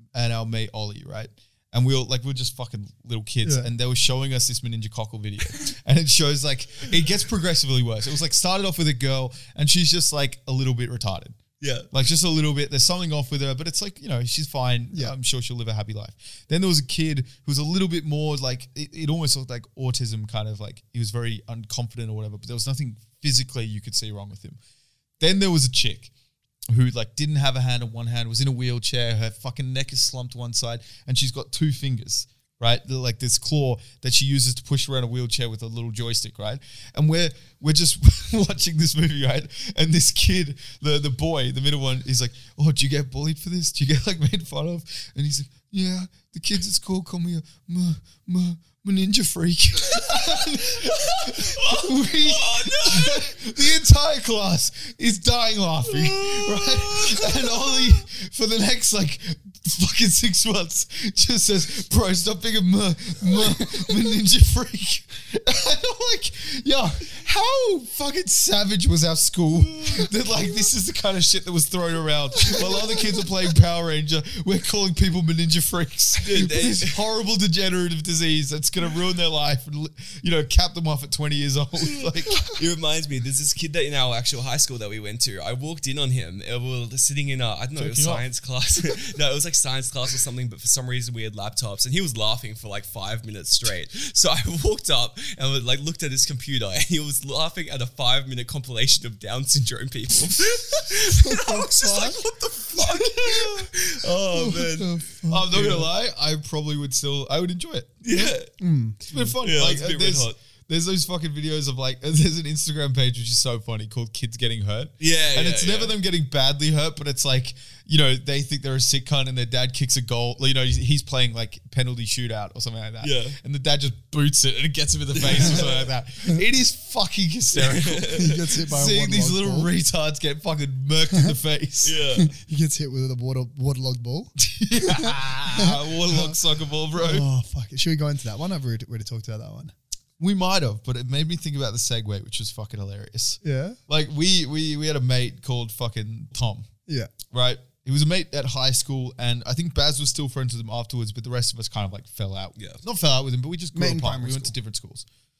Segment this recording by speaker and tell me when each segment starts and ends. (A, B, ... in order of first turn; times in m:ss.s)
0:00.1-0:11.4 A
0:11.6-0:11.9 B
0:11.9-0:24.6 A
0:25.2-0:26.1 A
0:26.7-1:22.4 A
0:49.9-0:53.5 B
0:55.9-0:58.0 B
1:12.5-1:13.1 C
1:16.2-1:17.0 B
1:22.4-1:45.8 B
1:27.8-1:28.2 A
1:41.1-1:42.2 C
1:42.8-1:43.6 C
1:44.3-1:45.8 C
1:45.3-1:48.3 A
1:48.0-1:48.5 B
1:48.6-1:49.0 C
1:49.1-2:08.2 A
1:49.2-1:50.4 B
1:55.0-1:55.9 B
2:03.0-2:03.4 B
2:05.2-2:05.7 C
2:05.3-2:05.7 B
2:07.6-2:08.5 B
2:08.1-2:09.7 C
2:08.7-2:12.0 A
2:11.8-2:12.3 B
2:12.2-2:16.4 C
2:14.4-2:17.3 A
2:16.9-2:19.7 C
2:20.2-2:26.7 A
2:23.4-2:23.8 C
2:26.9-2:27.1 C
2:27.3-2:35.0 A
2:32.6-2:32.8 B
2:33.7-2:34.5 C